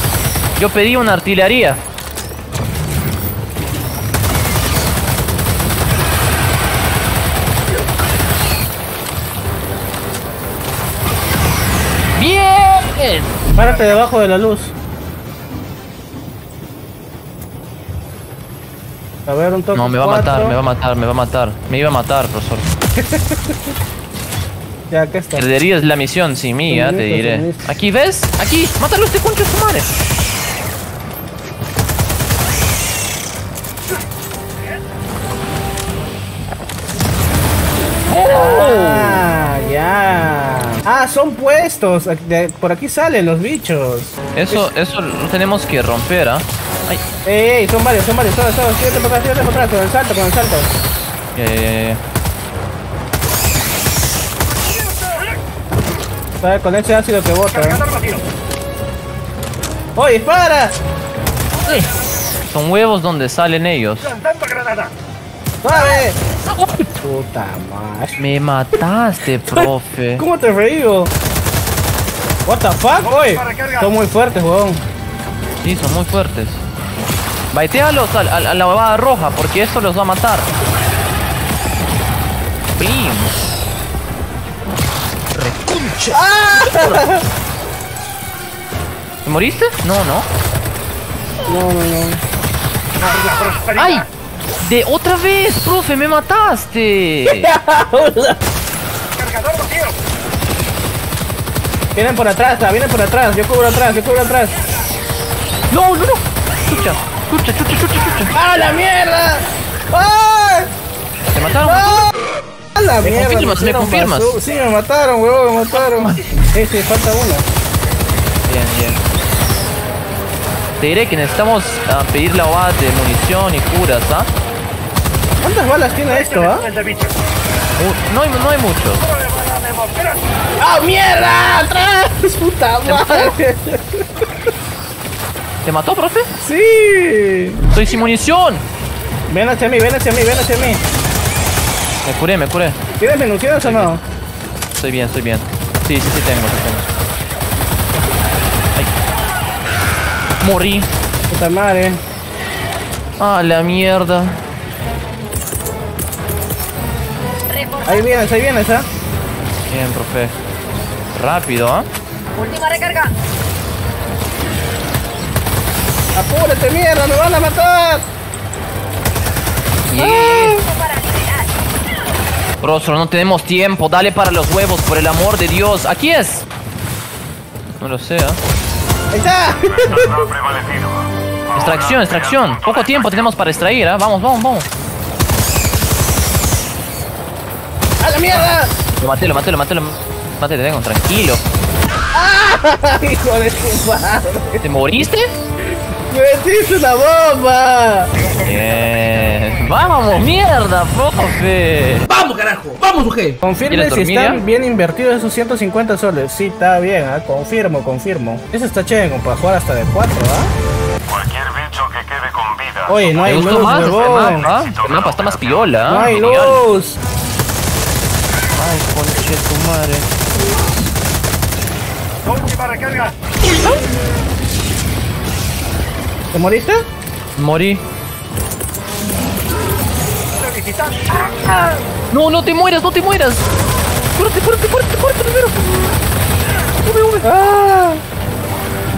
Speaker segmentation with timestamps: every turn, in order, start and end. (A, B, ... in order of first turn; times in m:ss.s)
0:00.6-0:01.8 A
0:12.2-0:13.3 A
0:13.5-0:14.7 B
0:19.2-0:20.6 B
0:19.7-0:22.7 A
0:23.0-0:23.6 B
0:24.9-0:25.5 B
0:25.4-0:29.9 A
0:26.7-0:27.7 B
0:38.1-0:39.3 A
0:38.2-0:44.7 B
0:44.3-0:47.0 A
0:47.2-0:50.7 B
0:51.3-0:52.0 A
0:56.4-0:57.9 B
1:00.0-1:00.8 B
1:01.6-1:01.9 A
1:02.5-1:04.2 A
1:05.6-1:06.2 B
1:07.0-1:08.2 B
1:08.2-1:10.2 A
1:09.5-1:11.1 B
1:12.5-1:14.8 B
1:15.6-1:16.6 A
1:17.5-1:20.5 A
1:22.8-1:23.3 A
1:25.3-1:27.0 A
1:26.1-1:27.2 B
1:29.2-1:30.2 A
1:31.5-1:32.2 B
1:33.7-1:34.1 A
1:34.6-1:37.5 A
1:37.3-1:38.4 B
1:41.9-1:44.6 B
1:45.7-1:48.3 A
1:48.3-1:50.7 B
1:51.3-1:52.1 A
1:51.6-1:52.1 B
1:52.7-1:57.4 B
1:53.0-1:54.4 A
1:55.7-1:56.3 A
1:58.4-1:59.0 A
2:00.8-2:04.3 A
2:05.4-2:06.7 B
2:07.8-2:09.1 A
2:10.6-2:14.2 B
2:12.8-2:13.3 A
2:15.6-2:16.3 A
2:16.4-2:17.6 B
2:17.7-2:18.6 A
2:19.3-2:20.8 B
2:22.0-2:22.8 A
2:23.0-2:24.0 B
2:23.6-2:23.9 A
2:24.7-2:26.9 A
2:30.4-2:30.9 A
2:31.3-2:32.0 B
2:33.2-2:34.4 A
2:37.5-2:38.3 C
2:37.8-2:38.9 B
2:39.7-2:40.3 A
2:41.1-2:41.9 A
2:42.3-2:43.1 C
2:46.1-2:48.0 B
2:49.9-2:50.6 A
2:50.0-2:50.6 B
2:50.6-2:51.5 C
2:52.6-2:56.4 A
2:57.8-2:58.4 A
2:59.1-3:00.3 B
3:01.5-3:04.7 A
3:08.0-3:08.7 B
3:08.3-3:11.4 A
3:12.1-3:14.6 B
3:14.6-3:15.3 A
3:16.1-3:18.1 B
3:18.4-3:22.1 A
3:22.2-3:23.2 D
3:23.2-3:30.5 B
3:23.7-3:24.4 A
3:31.3-3:32.8 D
3:32.9-3:34.5 B
3:33.2-3:36.6 A
3:35.8-3:37.0 B
3:38.5-3:40.1 A
3:43.4-3:43.8 A
3:46.3-3:46.8 B
3:47.4-3:47.8 A
3:51.2-3:51.8 B
3:52.1-3:53.5 A
3:54.1-3:55.8 A
3:56.8-3:57.3 A
3:57.2-3:58.0 B